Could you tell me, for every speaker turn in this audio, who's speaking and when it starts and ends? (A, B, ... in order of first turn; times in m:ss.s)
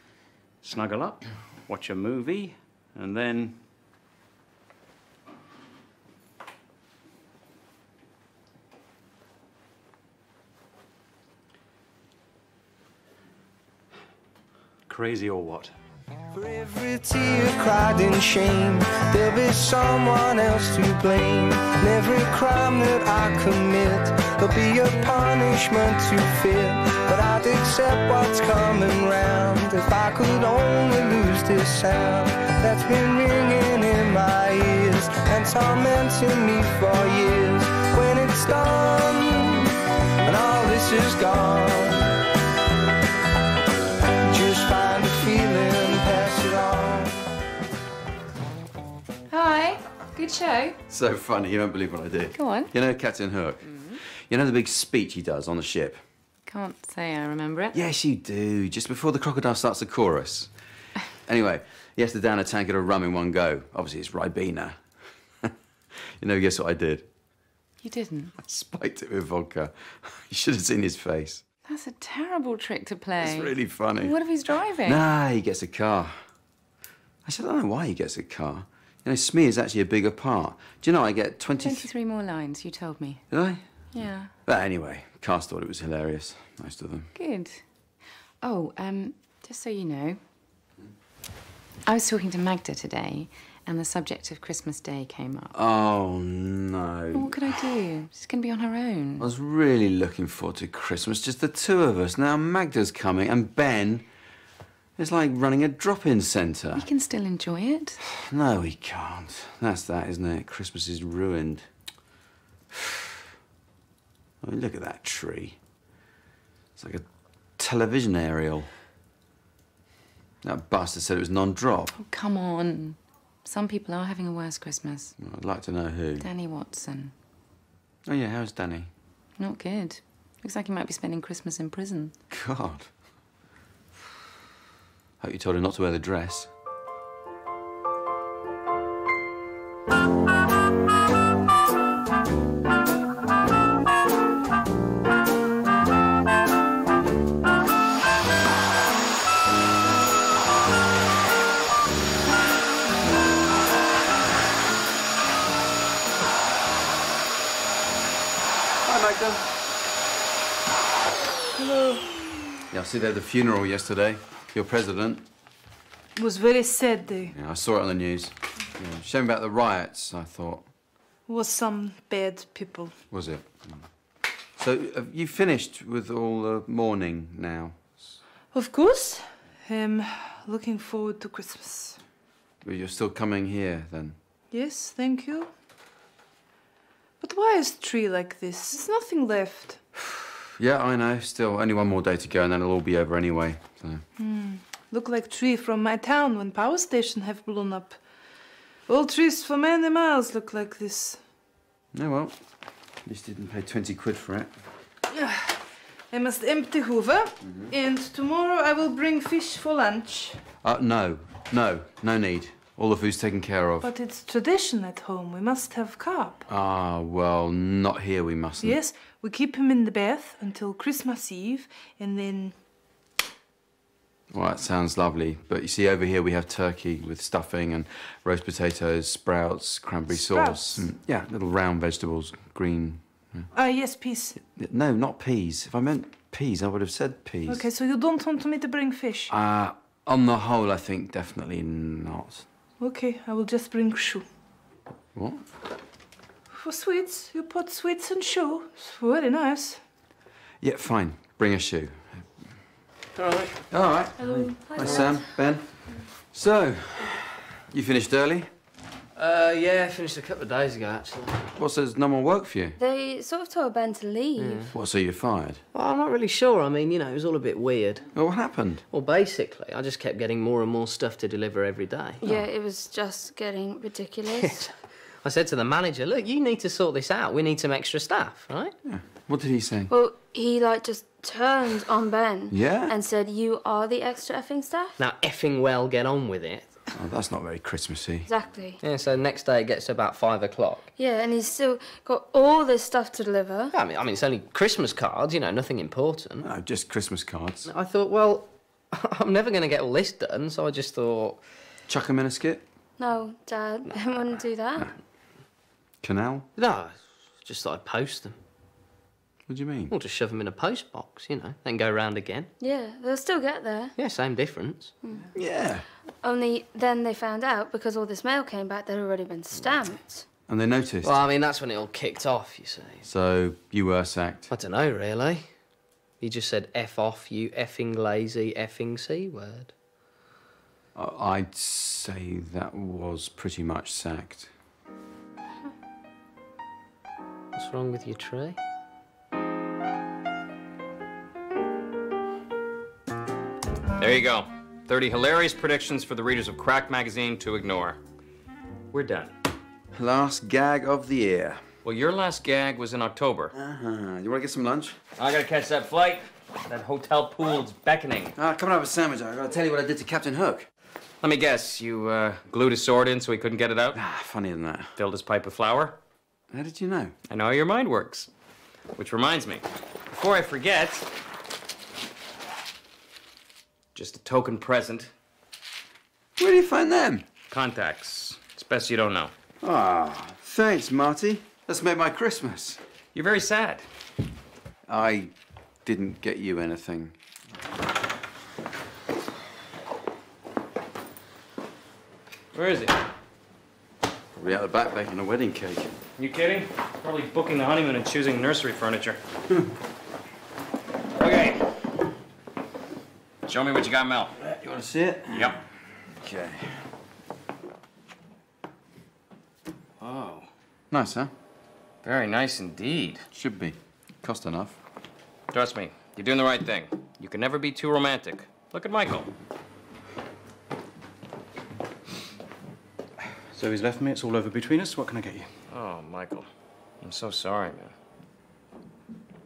0:00.6-0:03.6 A
0:14.9-0:15.8 A
0:16.3-0:42.1 B
0:44.3-0:47.2 B
0:49.3-0:50.8 C
0:50.9-0:56.0 D
0:52.4-0:52.7 C
0:56.5-0:57.8 C
0:57.7-1:00.5 D
1:01.2-1:04.9 D
1:06.2-1:07.1 D
1:07.8-1:08.3 C
1:08.4-1:11.4 D
1:11.6-1:15.0 C
1:13.2-1:14.2 D
1:14.8-1:16.2 D
1:17.2-1:21.9 D
1:21.6-1:23.2 C
1:23.3-1:23.6 D
1:23.9-1:24.3 C
1:24.4-1:27.1 D
1:27.1-1:27.6 C
1:28.4-1:30.2 C
1:31.9-1:35.5 C
1:35.5-1:37.4 D
1:37.1-1:39.3 C
1:39.2-1:44.1 D
1:45.0-1:46.9 D
1:46.8-1:48.0 C
1:48.1-1:51.7 D
1:52.7-1:53.0 D
1:54.4-1:55.6 D
1:56.8-1:58.7 D
2:00.4-2:02.0 D
2:02.0-2:05.2 C
2:05.2-2:06.3 D
2:06.2-2:07.1 C
2:08.0-2:08.9 D
2:09.4-2:12.2 C
2:12.3-2:12.9 D
2:15.2-2:16.5 D
2:38.8-2:39.4 D
2:41.6-2:42.1 E
2:42.7-2:45.3 D
2:46.2-2:47.4 E
2:47.3-2:50.7 D
2:51.3-2:53.0 E
2:53.1-2:53.9 D
2:54.6-2:58.2 D
2:58.5-3:02.0 E
3:02.6-3:04.2 D
3:04.5-3:05.5 E
3:07.2-3:09.8 E
3:10.0-3:14.0 D
3:14.2-3:18.0 E
3:18.9-3:21.2 E
3:21.9-3:22.4 D
3:23.0-3:24.5 D
3:25.1-3:30.4 E
3:27.4-3:27.7 D
3:30.6-3:33.9 D
3:33.8-3:36.4 E
3:36.5-3:38.8 D
3:38.6-3:42.6 E
3:44.3-3:53.5 D
3:50.1-3:50.9 E
3:53.5-3:54.4 E
3:54.5-3:57.7 D
3:57.5-3:59.3 E
3:59.3-4:02.5 D
4:02.8-4:04.3 E
4:05.2-4:05.5 D
4:06.5-4:09.8 E
4:10.6-4:12.3 D
4:13.2-4:13.6 F
4:13.7-4:18.5 D
4:14.2-4:15.4 G
4:19.2-4:21.5 F
4:21.6-4:22.8 D
4:22.8-4:24.7 G
4:24.4-4:24.7 F
4:24.7-4:25.6 D
4:25.7-4:28.1 F
4:28.1-4:28.8 D
4:28.9-4:32.2 F
4:32.2-4:34.7 G
4:34.4-4:38.8 F
4:38.8-4:39.9 D
4:39.9-4:45.0 G
4:42.5-4:43.0 D
4:45.0-4:46.7 F
4:47.0-4:48.3 D
4:48.3-4:48.8 G
4:48.8-4:50.9 F
4:51.0-4:53.7 G
4:53.7-4:56.4 F
4:56.4-4:57.7 D
4:57.6-5:01.4 F
5:01.9-5:02.6 D
5:03.0-5:04.9 G
5:06.0-5:06.5 D
5:06.6-5:08.4 F
5:09.5-5:09.9 D
5:09.9-5:12.5 F
5:12.6-5:13.9 G
5:14.0-5:15.0 F
5:15.3-5:15.9 D
5:16.2-5:20.3 G
5:20.5-5:21.2 D
5:21.0-5:23.1 F
5:23.0-5:24.5 D
5:24.5-5:29.8 F
5:31.0-5:34.5 D
5:37.5-5:38.6 F
5:44.0-5:48.0 H
5:48.9-5:49.3 H
5:49.9-5:51.6 D
5:51.8-5:53.5 H
5:53.5-5:55.0 D
5:55.2-5:58.3 H
5:58.4-6:00.7 D
6:01.2-6:04.0 H
6:03.9-6:04.9 D
6:05.0-6:06.0 H
6:06.5-6:07.1 D
6:07.3-6:08.3 H
6:09.0-6:11.1 H
6:13.9-6:15.1 H
6:16.4-6:17.3 D
6:17.5-6:19.3 H
6:19.6-6:22.8 D
6:23.1-6:23.9 H
6:24.9-6:27.2 D
6:32.5-6:33.0 H
6:34.4-6:35.9 D
6:36.2-6:39.2 H
6:41.2-6:41.7 H
6:43.5-6:44.4 H
6:44.4-6:45.6 D
6:45.3-6:45.6 H
6:46.2-6:46.8 D
6:50.0-6:50.5 H
6:50.9-6:51.3 D
6:52.0-6:53.2 H
6:53.3-6:54.8 D
6:55.5-6:59.3 H
7:03.5-7:05.5 A
7:05.7-7:06.5 H
7:07.0-7:07.9 H